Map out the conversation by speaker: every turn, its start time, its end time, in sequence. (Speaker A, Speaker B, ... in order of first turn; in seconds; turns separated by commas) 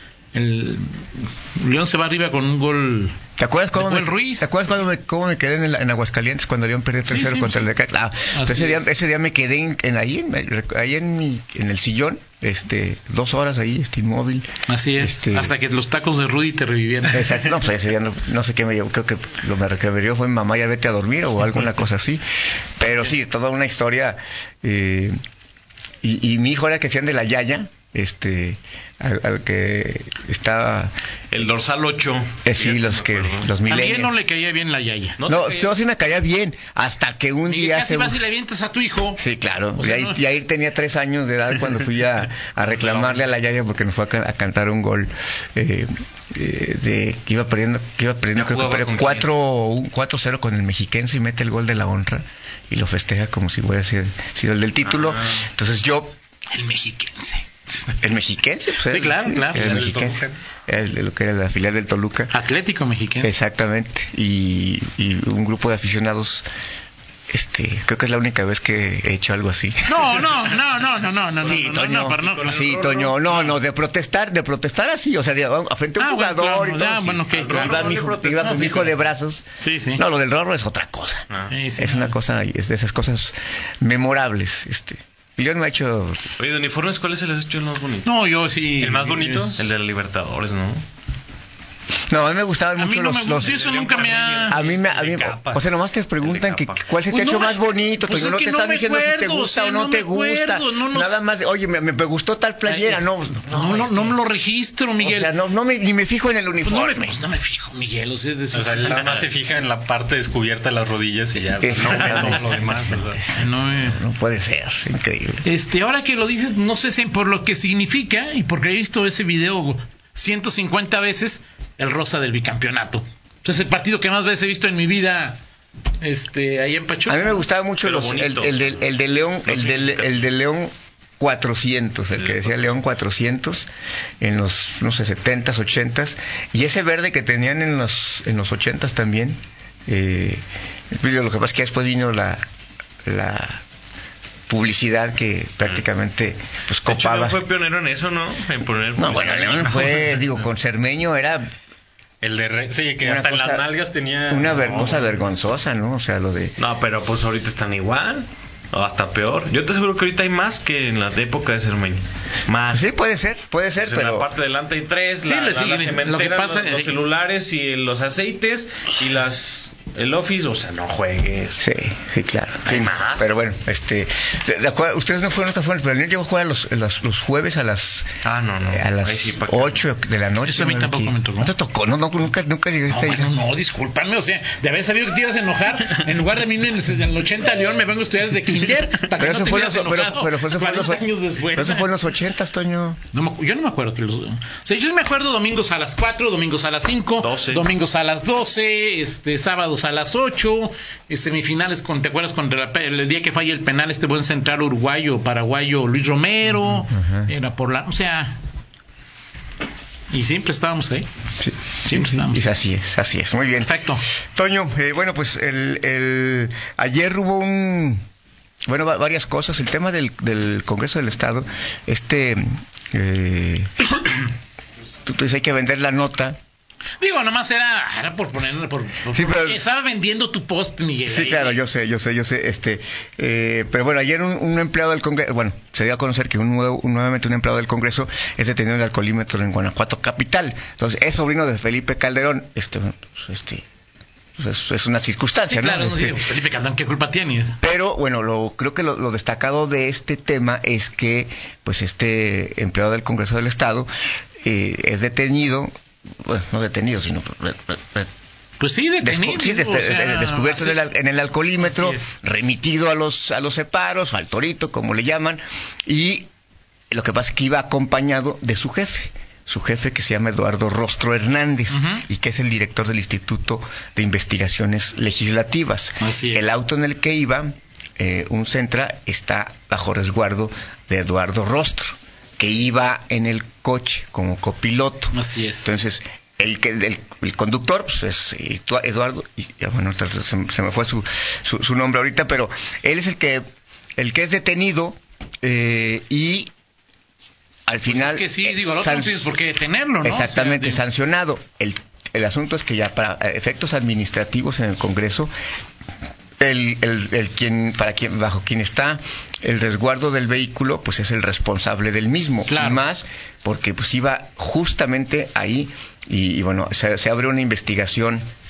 Speaker A: 0.3-3.1, Speaker B: 3.4-14.5, Speaker A: 3.8-4.5, Speaker A: 7.0-7.7, Speaker A: 8.3-8.9, Speaker A: 14.7-17.5, Speaker B: 15.0-15.5, Speaker B: 17.1-22.2, Speaker B: 22.8-25.1, Speaker B: 26.0-30.9, Speaker C: 31.3-33.5, Speaker B: 32.4-34.2, Speaker A: 33.7-35.2, Speaker C: 35.2-35.7, Speaker B: 35.2-38.2, Speaker A: 37.5-39.2, Speaker B: 39.2-56.1, Speaker A: 39.8-40.2, Speaker C: 42.6-43.2, Speaker C: 48.3-49.3, Speaker C: 54.8-55.4, Speaker A: 56.5-57.5, Speaker B: 58.0-62.3, Speaker A: 58.9-59.9, Speaker D: 59.5-60.4, Speaker A: 62.3-63.3, Speaker B: 63.2-66.5, Speaker B: 67.3-70.4, Speaker A: 69.9-72.6, Speaker B: 71.4-86.3, Speaker C: 72.2-73.4, Speaker A: 76.0-77.8, Speaker C: 77.3-78.9, Speaker A: 78.4-78.9, Speaker A: 79.6-80.0, Speaker A: 81.5-82.1, Speaker C: 86.4-88.1, Speaker A: 88.0-89.6, Speaker D: 88.8-89.6, Speaker C: 89.5-90.8, Speaker B: 92.1-104.2, Speaker A: 92.8-94.6, Speaker C: 93.4-95.7, Speaker C: 96.2-96.9, Speaker A: 97.1-101.2, Speaker A: 102.6-105.3, Speaker B: 105.0-107.2, Speaker A: 106.6-109.1, Speaker D: 108.5-113.2, Speaker C: 108.9-109.3, Speaker B: 111.6-115.4, Speaker C: 111.8-112.6, Speaker A: 113.3-114.0, Speaker A: 115.4-125.4, Speaker A: 126.0-127.4, Speaker B: 127.1-133.7, Speaker C: 127.8-128.9, Speaker C: 129.4-130.2, Speaker C: 132.1-132.7, Speaker B: 134.2-142.4, Speaker B: 143.1-143.6, Speaker B: 144.5-147.4, Speaker C: 146.8-150.2, Speaker B: 148.9-151.5, Speaker D: 152.2-155.2, Speaker B: 153.0-153.7, Speaker B: 154.3-156.6, Speaker C: 156.6-162.9, Speaker B: 162.7-164.3, Speaker C: 163.8-171.6, Speaker A: 165.2-167.0, Speaker B: 171.6-183.3, Speaker C: 172.6-173.3, Speaker C: 178.2-179.8, Speaker A: 180.4-181.5, Speaker A: 182.9-191.9, Speaker B: 189.1-193.0, Speaker A: 193.1-208.4, Speaker C: 197.2-197.7, Speaker B: 206.6-207.3, Speaker A: 210.1-211.1, Speaker B: 211.4-213.7, Speaker A: 211.8-212.5, Speaker A: 213.6-214.0, Speaker B: 214.3-218.0, Speaker B: 218.7-223.7, Speaker B: 225.1-226.4, Speaker A: 227.0-231.6, Speaker B: 229.1-229.6, Speaker B: 231.0-243.6, Speaker B: 244.4-246.2, Speaker A: 245.5-247.6, Speaker B: 247.6-253.9, Speaker B: 254.4-255.7, Speaker B: 256.2-258.1, Speaker A: 258.6-260.8, Speaker B: 259.0-266.2, Speaker A: 261.6-262.1, Speaker B: 266.9-293.4, Speaker A: 271.7-272.0, Speaker A: 276.0-276.5, Speaker A: 285.1-285.7, Speaker B: 294.0-296.5, Speaker B: 297.7-299.3, Speaker A: 297.9-300.8, Speaker B: 300.0-305.3, Speaker B: 306.4-318.2, Speaker A: 312.5-312.8